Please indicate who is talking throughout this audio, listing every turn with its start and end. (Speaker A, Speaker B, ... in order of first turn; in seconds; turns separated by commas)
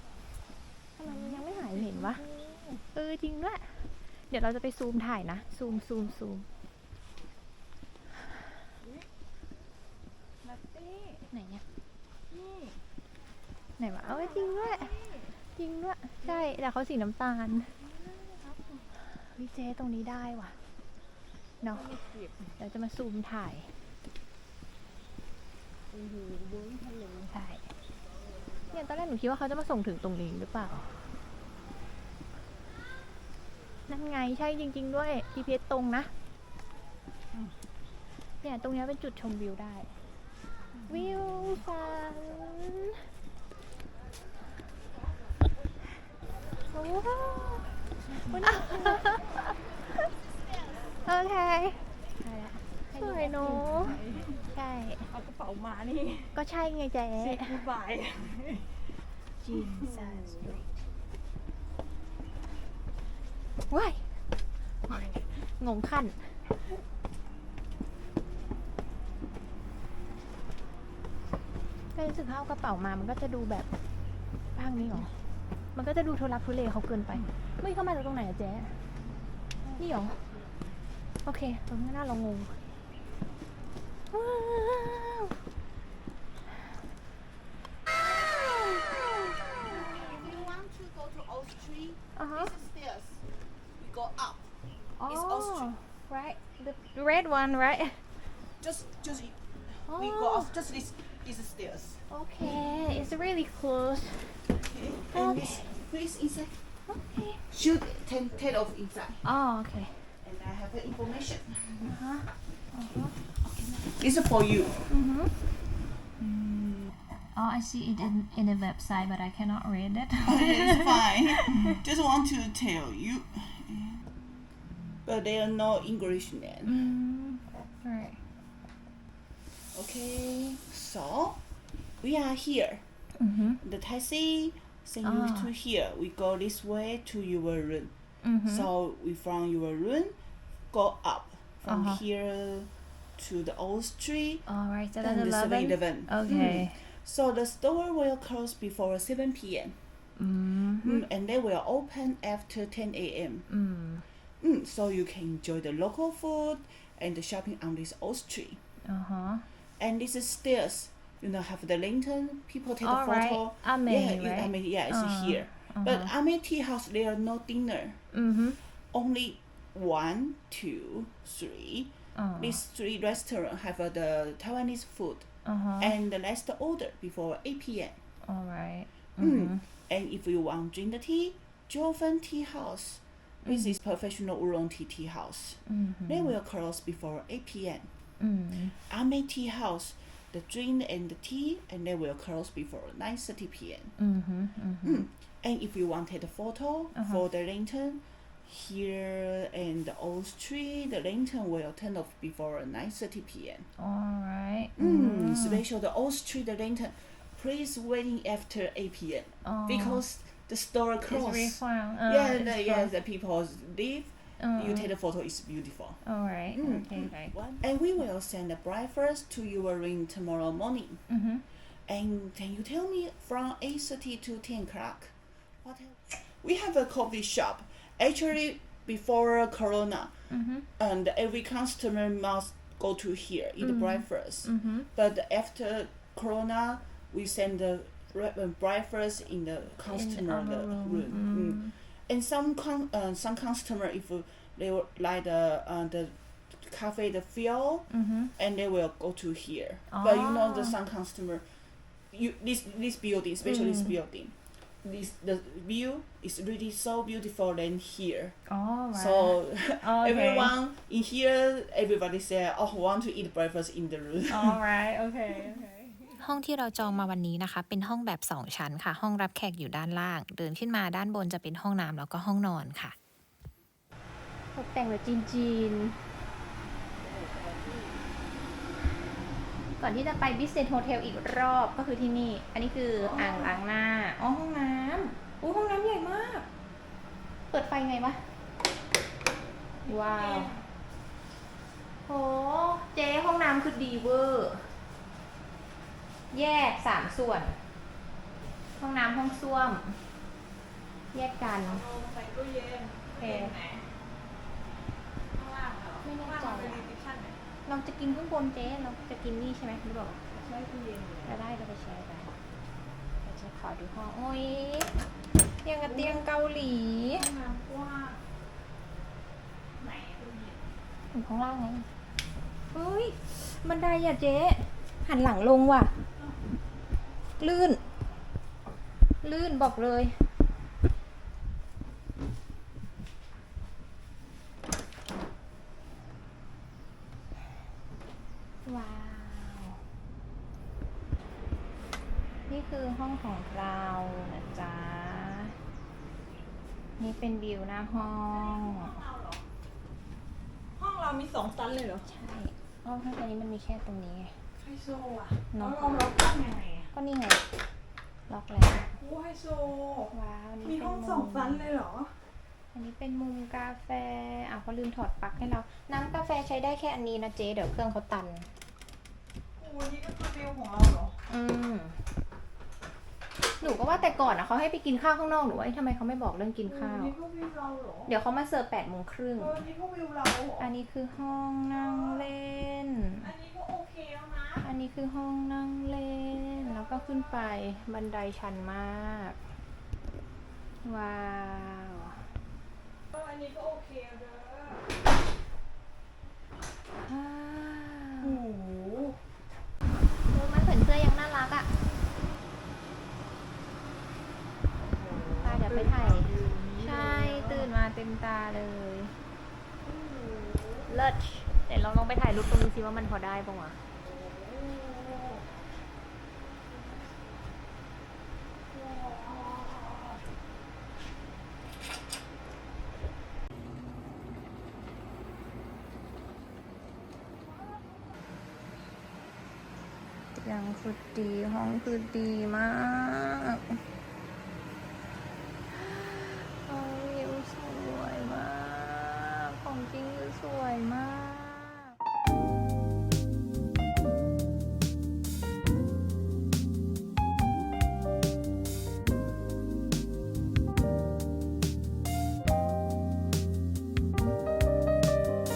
Speaker A: 1.0-2.2, Speaker B: 1.1-2.8, Speaker A: 2.9-6.5, Speaker B: 10.4-11.3, Speaker A: 11.3-11.6, Speaker B: 12.3-12.8, Speaker A: 13.8-15.0, Speaker B: 14.0-15.4, Speaker A: 15.5-17.8, Speaker B: 16.2-16.5, Speaker B: 17.8-18.9, Speaker A: 19.2-20.6, Speaker A: 21.6-22.0, Speaker B: 21.7-22.5, Speaker A: 22.6-23.8, Speaker B: 25.9-27.3, Speaker A: 27.3-27.7, Speaker A: 28.7-30.9, Speaker A: 33.9-36.1, Speaker A: 38.4-40.0, Speaker B: 40.7-41.5, Speaker A: 40.9-43.0, Speaker A: 46.7-49.5, Speaker B: 48.1-49.0, Speaker A: 50.9-55.1, Speaker B: 52.9-54.4, Speaker B: 55.1-56.4, Speaker A: 56.3-57.6, Speaker B: 57.2-58.8, Speaker A: 59.4-60.7, Speaker B: 59.5-60.4, Speaker A: 63.7-64.1, Speaker B: 64.9-65.2, Speaker A: 65.0-66.4, Speaker A: 71.9-73.7, Speaker A: 74.5-75.1, Speaker A: 75.7-78.8, Speaker A: 79.8-80.2, Speaker A: 81.2-82.6, Speaker A: 84.1-85.3, Speaker A: 88.2-90.2, Speaker C: 89.7-93.3, Speaker A: 92.2-92.5, Speaker C: 93.8-94.5, Speaker A: 95.0-98.0, Speaker C: 95.1-95.7, Speaker C: 98.6-102.1, Speaker A: 99.9-100.5, Speaker A: 102.1-104.5, Speaker C: 104.6-106.6, Speaker A: 105.1-105.8, Speaker A: 106.9-107.5, Speaker C: 107.5-109.2, Speaker A: 109.2-110.2, Speaker C: 110.2-111.9, Speaker A: 111.8-113.2, Speaker C: 113.8-114.8, Speaker A: 114.9-115.3, Speaker A: 117.2-121.6, Speaker C: 120.2-124.0, Speaker C: 125.0-126.8, Speaker A: 126.7-128.2, Speaker C: 129.7-131.4, Speaker C: 132.0-132.9, Speaker A: 133.2-133.6, Speaker C: 133.6-137.9, Speaker A: 135.0-135.5, Speaker A: 138.2-138.7, Speaker C: 138.4-140.2, Speaker C: 140.7-144.4, Speaker A: 141.7-142.0, Speaker A: 144.5-146.8, Speaker C: 145.0-149.8, Speaker A: 150.2-151.1, Speaker C: 150.8-153.5, Speaker A: 153.5-154.0, Speaker C: 154.4-158.6, Speaker A: 158.8-159.4, Speaker C: 159.8-168.0, Speaker A: 162.8-166.1, Speaker A: 168.1-168.6, Speaker C: 168.9-175.3, Speaker A: 172.2-172.6, Speaker A: 175.4-175.9, Speaker C: 175.8-178.0, Speaker A: 178.2-179.6, Speaker C: 179.2-187.9, Speaker A: 183.4-183.8, Speaker A: 185.7-186.3, Speaker A: 188.2-188.8, Speaker C: 188.9-193.9, Speaker A: 194.0-195.1, Speaker C: 194.8-203.7, Speaker A: 196.9-197.2, Speaker A: 203.8-205.6, Speaker C: 204.8-216.0, Speaker A: 209.4-210.0, Speaker A: 211.1-212.9, Speaker A: 214.4-214.9, Speaker A: 216.0-217.3, Speaker C: 216.5-221.0, Speaker A: 221.1-221.4, Speaker C: 221.9-251.4, Speaker A: 230.3-230.7, Speaker A: 233.6-234.9, Speaker A: 239.9-241.7, Speaker A: 247.9-248.3, Speaker A: 249.9-250.8, Speaker C: 252.1-258.4, Speaker A: 253.4-254.0, Speaker A: 258.5-260.6, Speaker C: 258.9-264.6, Speaker A: 264.3-265.7, Speaker B: 265.3-266.2, Speaker D: 266.2-273.0, Speaker A: 274.5-276.0, Speaker B: 277.0-277.9, Speaker A: 279.8-286.5, Speaker B: 283.0-283.6, Speaker A: 287.5-288.2, Speaker B: 289.8-290.7, Speaker A: 289.9-290.5, Speaker A: 292.1-294.7, Speaker A: 296.3-297.6, Speaker A: 298.8-300.0, Speaker A: 301.1-301.8, Speaker B: 301.7-303.9, Speaker A: 303.2-303.6, Speaker B: 305.3-307.4, Speaker A: 306.0-306.9, Speaker A: 307.7-310.2, Speaker B: 310.3-311.4, Speaker A: 311.2-312.3, Speaker A: 313.2-314.9, Speaker A: 315.6-317.3, Speaker B: 315.8-316.3, Speaker B: 317.1-318.2, Speaker B: 319.8-320.7, Speaker A: 321.1-321.9, Speaker A: 322.7-326.0, Speaker A: 327.4-327.8, Speaker A: 329.2-330.3, Speaker A: 338.6-339.8, Speaker A: 342.5-345.6, Speaker A: 347.0-349.0, Speaker B: 348.1-349.5, Speaker B: 350.8-352.1, Speaker A: 352.1-354.4, Speaker B: 354.6-356.9, Speaker A: 355.5-356.1, Speaker A: 356.9-357.4, Speaker A: 358.3-358.9, Speaker B: 358.7-362.2, Speaker A: 360.1-361.7, Speaker A: 362.7-368.5, Speaker B: 369.6-371.2, Speaker A: 371.3-372.0, Speaker A: 373.6-377.1, Speaker B: 373.6-374.3, Speaker B: 376.6-378.1, Speaker A: 378.1-379.6, Speaker B: 379.4-380.7, Speaker A: 380.6-383.3, Speaker B: 381.7-382.3, Speaker B: 383.2-384.6, Speaker A: 384.6-389.4, Speaker A: 390.8-392.2, Speaker B: 393.1-394.9, Speaker A: 396.9-398.4, Speaker B: 398.2-399.2, Speaker A: 400.2-401.7, Speaker B: 404.8-407.7, Speaker A: 405.4-409.2, Speaker B: 409.8-410.9, Speaker A: 410.9-413.8, Speaker B: 413.9-415.5, Speaker B: 416.8-417.1, Speaker B: 418.7-420.2, Speaker A: 430.4-433.8, Speaker A: 435.7-442.0